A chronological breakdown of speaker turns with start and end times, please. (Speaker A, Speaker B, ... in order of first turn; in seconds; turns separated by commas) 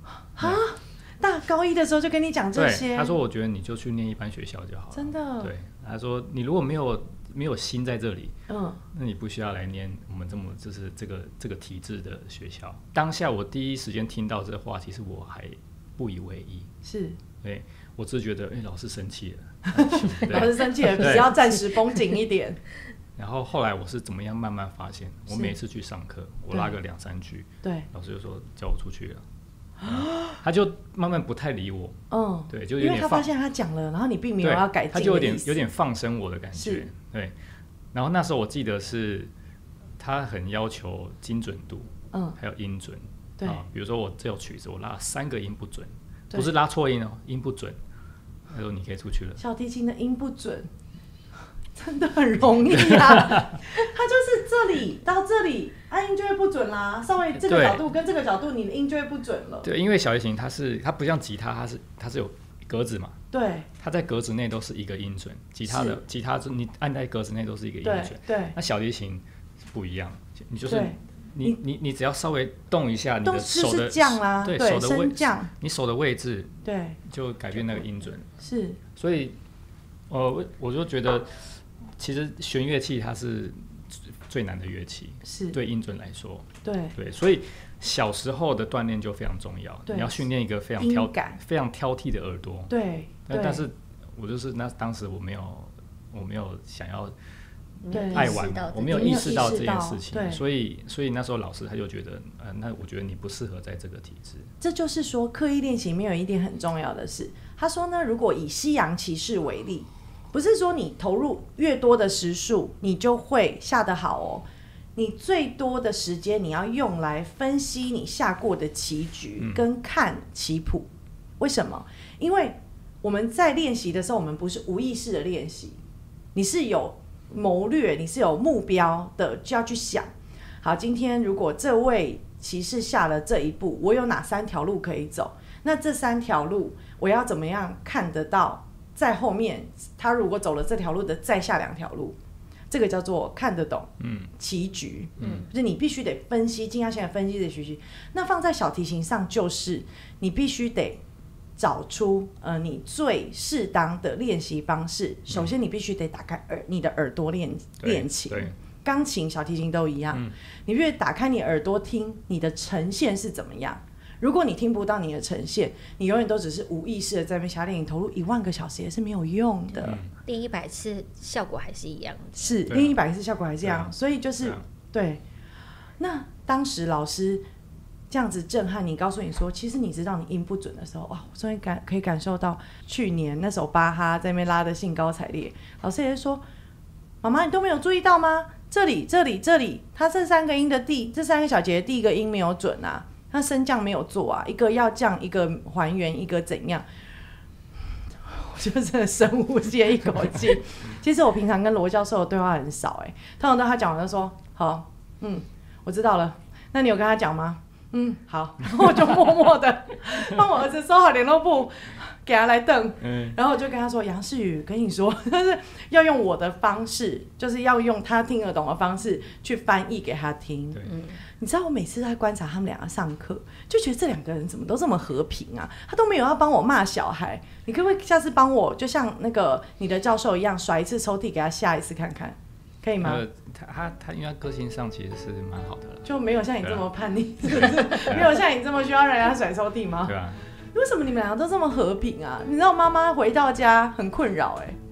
Speaker A: 0.4-3.1, Speaker B: 2.5-8.4, Speaker A: 4.9-5.5, Speaker A: 8.5-8.8, Speaker B: 8.9-16.7, Speaker A: 16.8-17.2, Speaker B: 17.4-21.5, Speaker A: 19.7-22.6, Speaker B: 23.2-29.2, Speaker A: 27.6-27.9, Speaker A: 29.8-30.4, Speaker B: 29.8-33.3, Speaker A: 32.1-35.6, Speaker B: 34.4-37.4, Speaker A: 36.6-36.9, Speaker B: 37.9-39.3, Speaker B: 40.0-47.8, Speaker A: 42.1-42.4, Speaker B: 48.5-49.4, Speaker A: 49.4-50.7, Speaker A: 51.8-59.7, Speaker B: 52.8-53.5, Speaker B: 57.4-57.8, Speaker B: 59.6-63.2, Speaker A: 63.3-63.7, Speaker B: 63.8-78.3, Speaker A: 65.7-66.0, Speaker A: 67.8-68.5, Speaker A: 70.7-71.6, Speaker A: 73.2-75.5, Speaker A: 76.7-77.0, Speaker A: 78.4-78.8, Speaker B: 79.0-79.4, Speaker B: 80.1-81.4, Speaker B: 82.0-92.7, Speaker A: 85.2-85.6, Speaker A: 86.6-87.0, Speaker A: 89.9-90.2, Speaker A: 90.8-91.4, Speaker A: 92.7-93.6, Speaker B: 93.3-97.2, Speaker C: 97.8-99.6, Speaker A: 97.9-100.4, Speaker B: 97.9-104.5, Speaker A: 104.6-125.8, Speaker B: 119.4-119.6, Speaker A: 126.3-130.1, Speaker A: 130.6-142.2, Speaker A: 142.7-151.0, Speaker B: 144.0-144.3, Speaker B: 145.2-145.5, Speaker A: 151.6-170.0, Speaker B: 155.3-155.6, Speaker B: 157.8-158.5, Speaker B: 169.8-170.1, Speaker C: 170.3-172.6, Speaker A: 172.4-175.2, Speaker B: 172.7-173.0, Speaker B: 173.6-174.6, Speaker A: 176.0-177.4, Speaker A: 178.1-186.4, Speaker A: 187.2-196.9, Speaker A: 198.2-233.2, Speaker B: 213.0-213.4, Speaker C: 220.9-221.2, Speaker B: 233.0-236.1, Speaker A: 236.1-240.2, Speaker B: 236.6-236.9, Speaker B: 237.4-238.4, Speaker B: 240.1-240.4, Speaker A: 240.7-244.8